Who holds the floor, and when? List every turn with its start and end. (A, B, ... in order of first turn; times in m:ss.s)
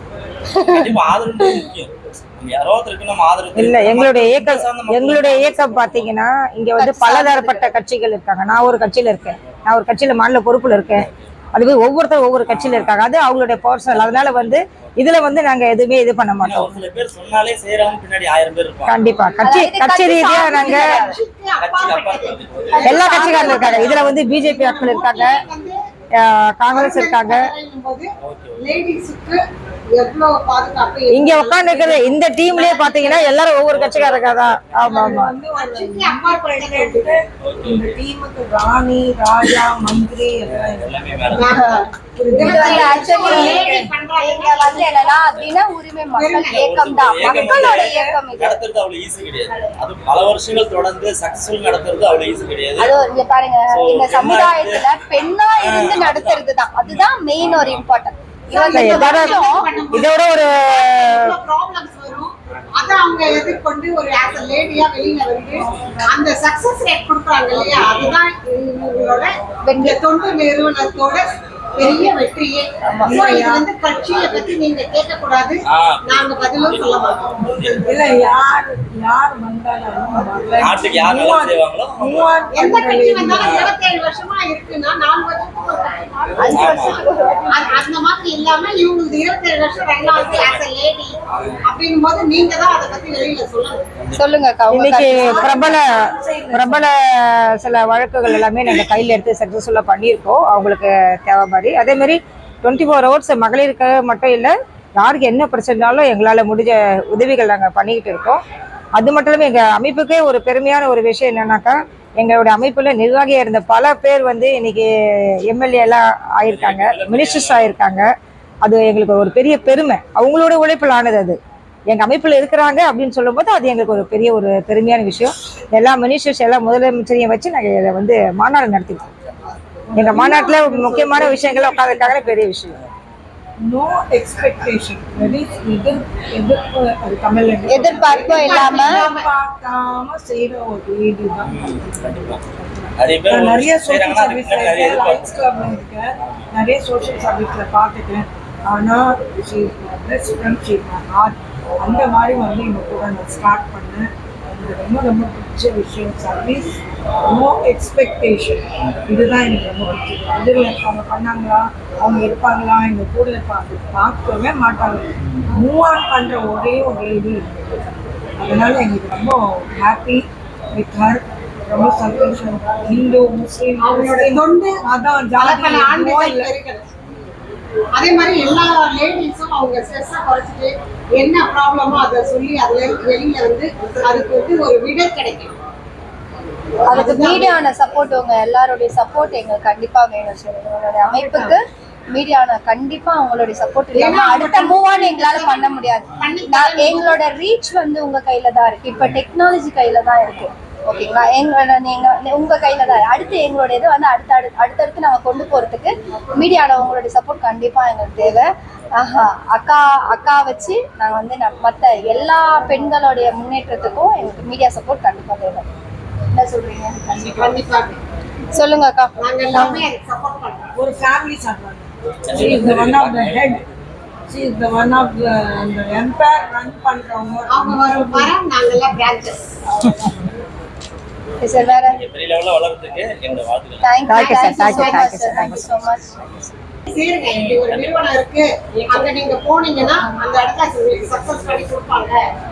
0:00.5-0:00.9 A
0:00.6-0:06.1 B
0:03.6-0:16.8 C
0:06.8-0:07.7 A
0:12.5-0:13.0 B
0:16.4-0:19.0 B
0:18.9-0:21.0 C
0:19.4-0:21.2 A
0:20.3-0:25.8 D
0:21.6-0:23.3 B
0:22.7-0:24.0 A
0:22.8-0:25.4 C
0:26.2-0:27.4 C
0:26.7-0:29.4 D
0:28.2-0:28.7 B
0:29.9-0:33.3 D
0:31.1-0:35.3 C
0:33.7-0:34.8 B
0:34.8-0:40.9 E
0:35.6-0:37.2 D
0:37.4-0:38.0 B
0:40.5-0:41.5 B
0:41.3-0:45.2 D
0:41.5-0:41.9 A
0:42.2-0:43.9 E
0:42.4-0:48.6 A
0:46.2-0:46.6 D
0:46.5-0:52.9 B
0:47.2-0:48.2 E
0:52.8-0:59.6 A
0:53.7-0:54.8 B
0:55.6-0:57.8 B
0:58.5-1:11.2 D
0:58.7-0:59.4 C
0:59.9-1:01.3 C
1:05.6-1:06.2 E
1:09.6-1:10.0 A
1:11.8-1:17.5 D
1:12.9-1:13.1 A
1:13.0-1:13.7 E
1:15.7-1:17.8 B
1:17.8-1:23.8 E
1:20.6-1:22.3 B
1:22.5-1:27.0 D
1:23.4-1:23.8 B
1:26.4-1:27.6 A
1:26.5-1:27.0 B
1:27.5-1:31.1 D
1:30.0-1:30.6 B
1:31.7-1:33.8 D
1:34.2-1:35.5 A
1:34.7-1:48.4 C
1:35.1-1:36.8 E
1:49.0-1:58.1 C
1:56.5-1:57.8 B
1:58.6-2:01.4 C
2:01.9-2:09.1 C
2:09.9-2:12.4 E
2:10.0-2:12.8 C
2:10.2-2:11.0 D
2:13.6-2:47.8 E
2:17.7-2:19.0 A
2:18.1-2:19.3 D
2:21.4-2:22.4 B
2:23.0-2:25.3 B
2:26.2-2:26.5 B
2:48.4-2:56.5 E
2:53.8-2:54.8 D
2:55.4-2:56.8 D
2:58.0-3:05.6 D
3:06.9-3:07.6 D
3:06.9-3:11.6 A
3:11.1-3:11.6 E
3:12.1-3:35.7 A
3:14.0-3:17.2 D
3:36.3-3:37.5 A
3:37.3-3:38.0 D
3:38.5-3:39.9 A
3:39.2-3:40.7 D
3:40.8-3:43.6 E
3:42.3-3:43.6 B
3:44.3-3:48.3 E
3:47.5-3:49.4 D
3:51.4-3:52.0 A
3:51.6-3:53.9 B
3:53.8-3:56.5 A
3:54.1-3:55.8 C
3:54.6-3:55.2 E
3:56.9-4:02.2 D
3:57.6-3:58.1 B